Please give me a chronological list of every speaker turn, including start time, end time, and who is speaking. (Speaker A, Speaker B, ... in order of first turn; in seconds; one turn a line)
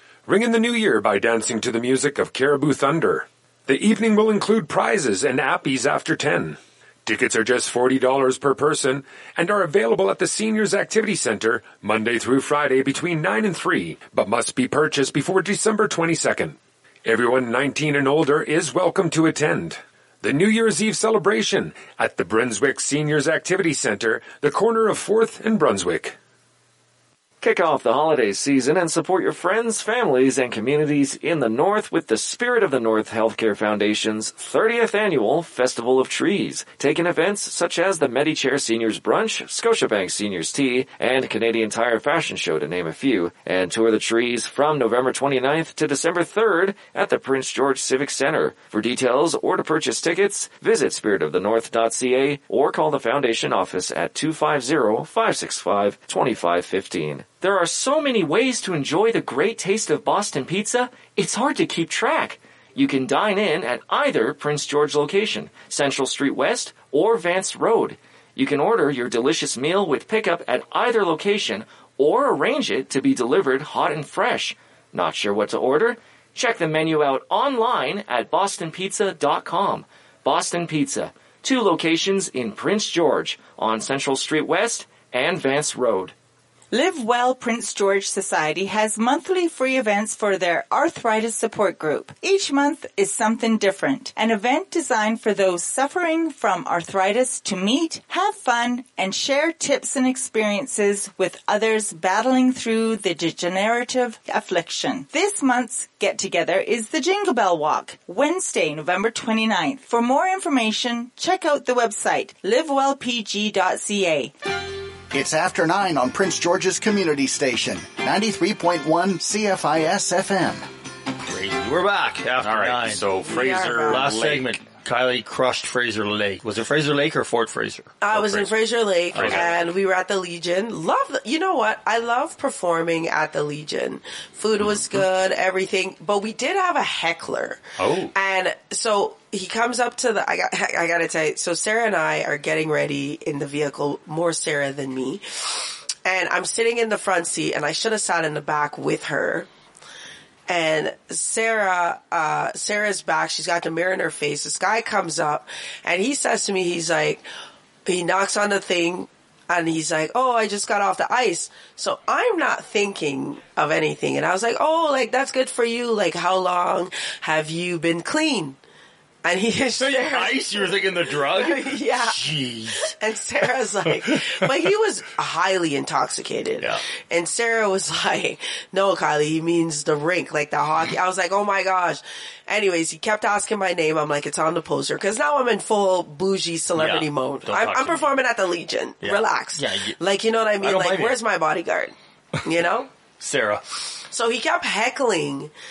Speaker A: 0.3-26.1
Speaker B: 27.4-86.1
Speaker C: 86.7-114.3
Speaker D: 115.1-120.7
Speaker E: 121.3-127.9
Speaker F: 122.4-124.6
Speaker G: 123.2-124.1
Speaker G: 128.0-137.6
Speaker F: 128.1-128.5
Speaker F: 129.1-129.6
Speaker F: 137.8-138.1
Speaker G: 138.1-149.5
Speaker G: 150.5-157.2
Speaker G: 157.8-168.6
Speaker G: 169.2-192.9
Speaker E: 169.8-172.9
Speaker E: 174.1-174.3
Speaker E: 186.8-188.1
Speaker E: 189.0-190.0
Speaker E: 190.6-191.2
Speaker E: 193.2-193.6
Speaker G: 194.1-195.5